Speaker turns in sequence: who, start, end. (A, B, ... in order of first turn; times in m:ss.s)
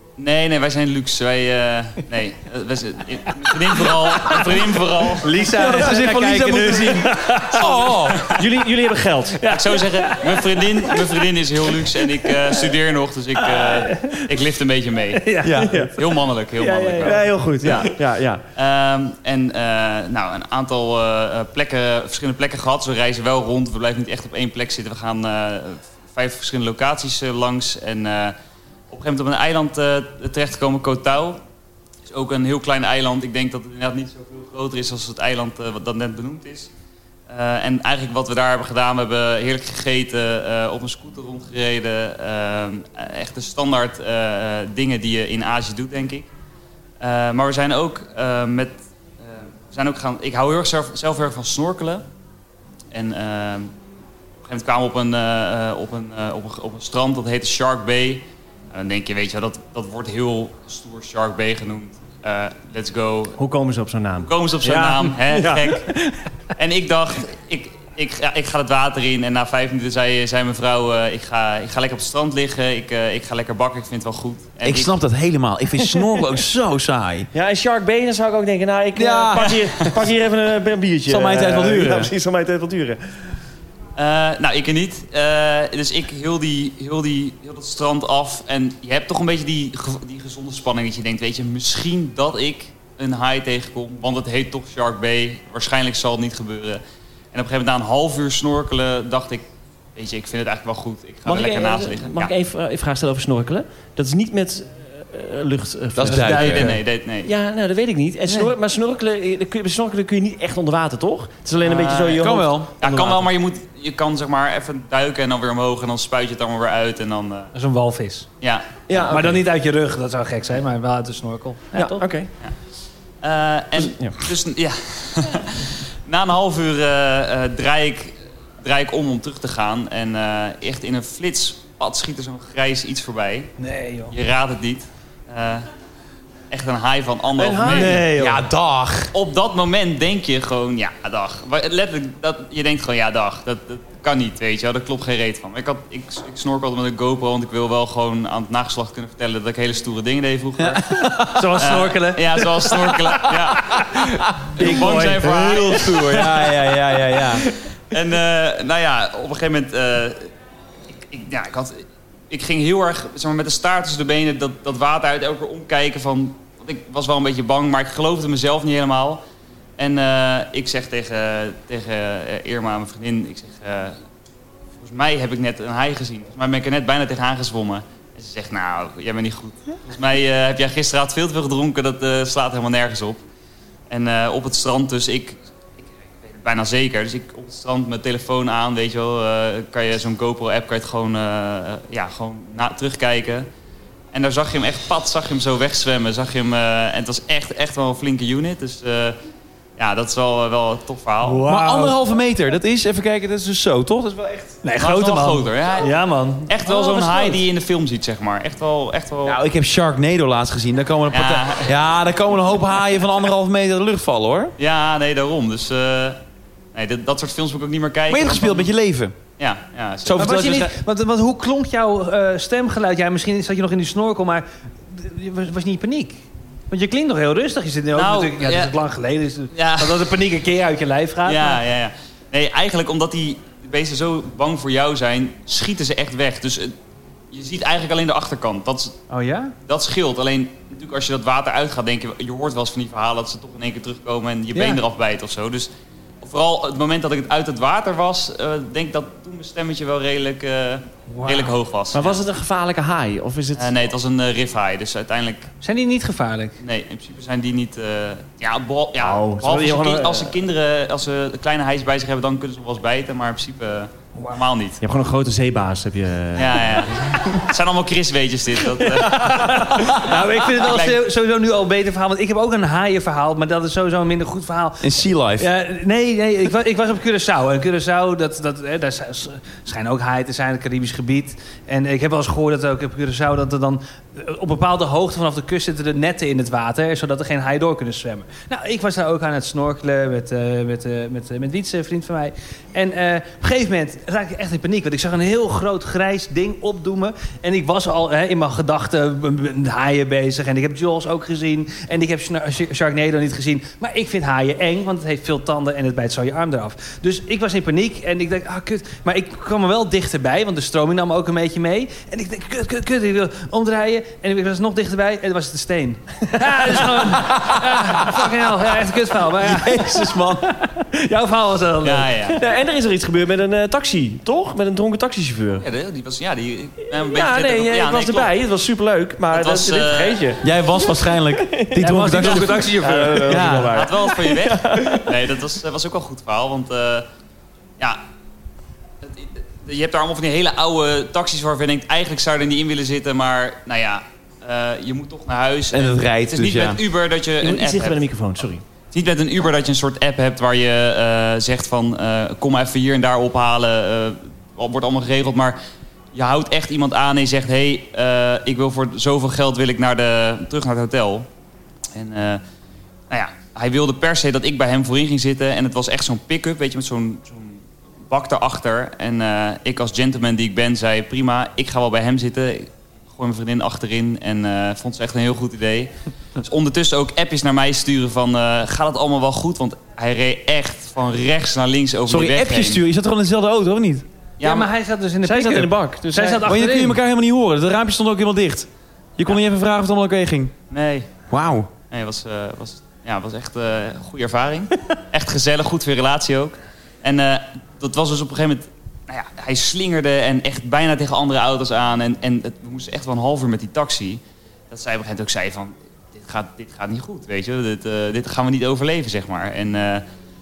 0:00.2-0:05.4 A
0:03.8-0:04.5 B
0:05.1-0:07.8 B
0:05.6-0:08.3 C
0:07.6-0:09.5 D
0:08.1-0:08.4 A
0:09.4-0:11.2 B
0:09.5-0:15.3 A
0:11.8-0:12.6 B
0:13.4-0:14.2 B
0:15.1-0:15.9 B
0:15.4-0:15.7 C
0:15.5-0:15.9 D
0:16.0-0:17.2 A
0:16.6-0:17.9 B
0:17.0-0:18.4 D
0:18.6-0:28.4 A
0:28.9-0:31.4 A
0:32.1-0:36.7 A
0:37.3-0:46.3 A
0:47.0-0:52.0 A
0:52.9-0:53.7 A
0:54.4-1:03.4 A
1:03.4-1:05.8 D
1:04.2-1:05.9 A
1:04.8-1:05.0 B
1:06.6-1:14.9 A
1:14.6-1:17.3 C
1:17.3-1:23.0 D
1:18.9-1:19.6 C
1:19.4-1:19.9 A
1:21.0-1:22.1 C
1:24.0-1:36.8 A
1:37.3-1:39.4 A
1:39.9-1:42.3 A
1:41.2-1:46.7 D
1:46.0-1:46.8 C
1:46.1-1:46.7 B
1:46.2-1:47.3 A
1:47.2-1:53.2 D
1:48.3-1:48.5 B
1:51.6-1:57.5 A
1:52.2-1:52.7 C
1:57.5-1:58.3 B
1:58.4-1:59.2 A
1:58.9-1:59.4 D
1:59.1-2:02.0 B
2:01.7-2:02.3 D
2:03.2-2:13.5 A
2:03.8-2:04.2 D
2:13.6-2:14.1 B
2:14.1-2:15.7 A
2:16.5-2:18.0 A
2:17.4-2:18.0 D
2:17.6-2:18.4 B
2:17.8-2:19.1 C
2:19.1-2:34.0 A
2:30.6-2:31.6 C
2:31.3-2:32.5 B
2:34.0-2:37.5 C
2:34.6-2:36.4 A
2:34.6-2:35.3 D
2:37.9-2:40.3 A
2:41.0-2:49.2 A
2:49.8-2:54.0 A
2:54.8-3:03.2 A
3:03.9-3:05.4 A
3:06.2-3:13.5 A
3:14.1-3:19.2 A
3:19.8-3:21.4 A
3:21.2-3:22.0 B
3:21.4-3:24.6 C
3:24.6-3:27.4 B
3:24.8-3:25.9 A
3:26.4-3:29.4 A
3:29.2-3:34.5 C
3:31.1-3:31.7 A
3:34.6-3:36.2 A
3:36.7-3:38.7 A
3:38.1-3:39.1 C
3:39.4-3:40.3 A
3:40.0-3:40.7 C
3:40.2-3:51.6 B
3:47.9-3:48.7 A
3:49.5-3:50.2 A
3:51.2-3:56.7 A
3:57.3-3:59.0 A
3:59.1-3:59.5 B
3:59.6-4:05.7 A
4:04.5-4:04.8 B
4:06.2-4:12.2 A
4:11.1-4:11.5 B
4:11.9-4:13.7 D
4:13.5-4:15.5 A
4:15.6-4:16.6 B
4:16.6-4:24.8 A
4:19.0-4:20.3 D
4:24.8-4:27.4 D
4:26.3-4:31.0 A
4:28.8-5:22.4 B
4:34.8-4:35.5 C
5:17.0-5:18.3 C
5:19.4-5:20.5 C
5:21.8-5:22.4 A
5:22.4-5:25.6 D
5:25.6-5:28.3 A
5:27.0-5:30.4 D
5:29.3-5:30.3 A
5:30.4-5:32.6 C
5:31.2-5:35.3 D
5:31.8-5:33.6 B
5:32.2-5:32.5 A
5:33.2-5:33.7 C
5:33.7-5:37.1 A
5:39.0-5:48.0 A
5:45.7-5:46.8 C
5:47.4-5:48.6 D
5:48.9-5:55.6 A
5:56.1-6:01.3 A
6:01.9-6:02.4 A
6:03.1-6:22.8 A
6:22.1-6:24.0 C
6:24.4-6:24.7 A
6:24.4-6:27.0 B
6:25.2-6:26.5 D
6:26.4-6:30.5 C
6:30.7-6:31.1 A
6:31.3-6:31.7 C
6:31.9-6:50.0 A